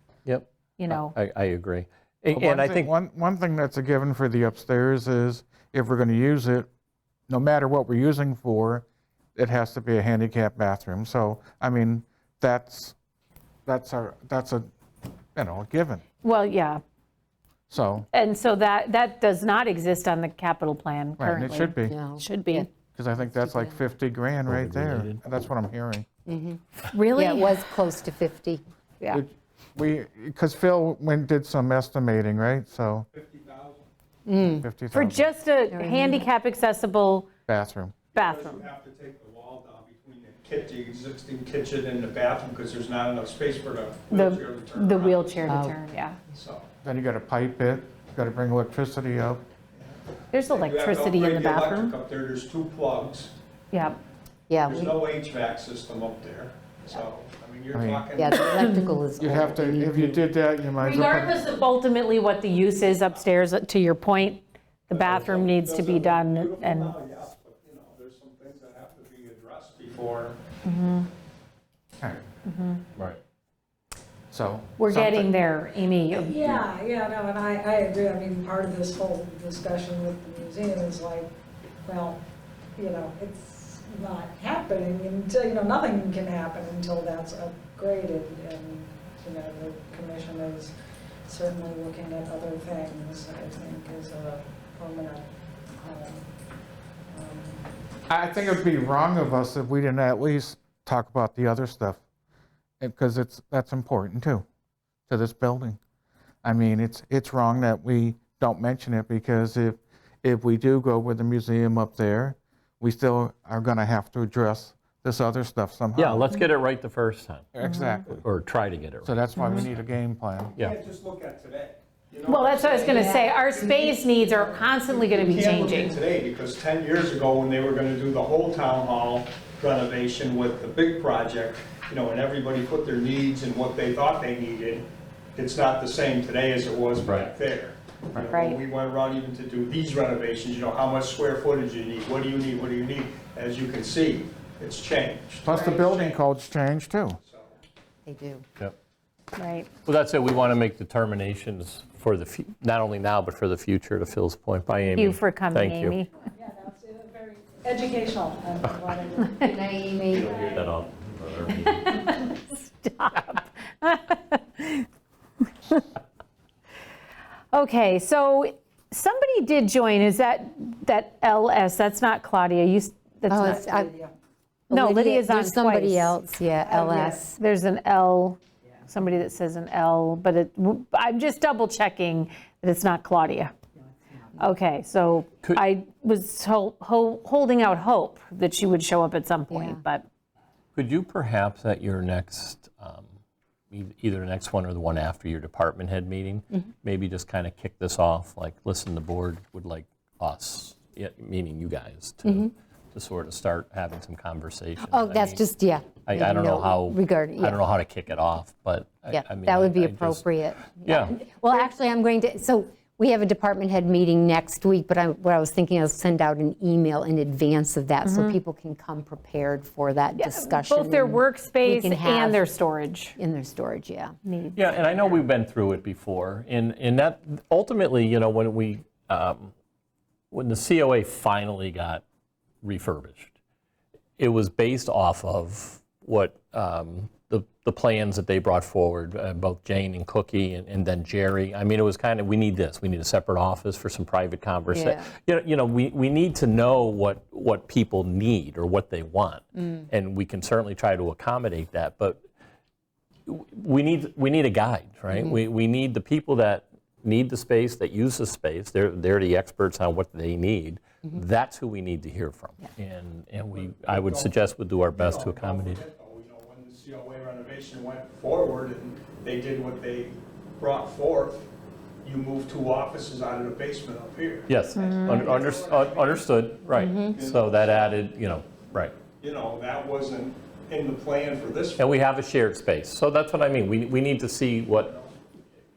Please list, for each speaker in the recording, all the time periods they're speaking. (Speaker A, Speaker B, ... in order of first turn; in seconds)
Speaker A: 0.2-2.9, 24.4-25.3, 116.0-117.5, 118.2-119.1, 137.0-137.3, 149.8-156.0, 160.1-162.0, 190.8-193.1, 193.7-205.4, 206.1-211.2, 224.5-229.5, 230.3-232.0, 232.6-233.3, 234.2-252.2, 253.3-265.8, 274.5-278.9, 281.8-284.9
Speaker B: 0.8-1.1, 16.2-16.8, 18.1-22.7, 27.1-27.6, 34.9-37.3, 38.1-38.7, 44.1-46.2, 50.3-52.0, 53.7-54.0, 58.5-59.0, 60.7-67.0, 70.6-71.1, 72.4-72.8, 74.8-76.6, 117.6-118.0, 119.4-119.7, 122.3-126.0, 138.2-138.6, 149.3-149.7, 154.9-156.1, 161.7-164.8, 167.5-173.6, 174.7-176.2, 177.2-183.5, 184.4-190.0, 218.0-218.4, 220.2-223.2, 224.2-225.2, 274.8-275.3
Speaker C: 2.3-6.7, 7.3-12.9, 13.7-14.7, 15.3-16.0, 17.7-18.1, 21.2-21.9, 22.9-26.1, 29.1-33.1, 34.6-35.3, 37.5-38.0, 46.8-49.4, 57.7-58.0, 59.2-61.5, 74.3-75.3, 98.1-102.0, 102.8-104.4, 105.1-105.8, 106.4-116.3, 117.5-118.2, 119.0-120.5, 145.4-147.2
Speaker D: 21.9-22.7, 23.3-23.8, 26.3-28.6, 34.3-34.7, 35.7-36.3, 45.5-45.8, 54.5-55.0, 58.1-60.3, 148.0-148.4, 159.4-160.3, 173.3-173.9, 174.7-177.3, 189.5-189.8, 202.2-202.5, 204.8-207.6, 209.1-222.5, 223.2-224.2, 244.7-245.1, 255.1-255.3, 276.7-277.2
Speaker E: 33.1-33.8, 38.1-45.6, 46.3-46.6, 49.7-53.3, 54.6-58.8, 62.6-63.2, 64.9-70.4, 120.5-134.8, 135.3-146.2, 147.2-147.5, 263.5-271.4, 272.0-276.3, 277.1-278.0, 279.2-281.8
Speaker F: 76.2-81.3, 81.8-82.2, 82.8-90.7, 91.2-95.2, 95.8-96.3, 97.1-97.7, 156.3-159.5, 160.3-160.6, 173.3-174.1, 176.6-177.2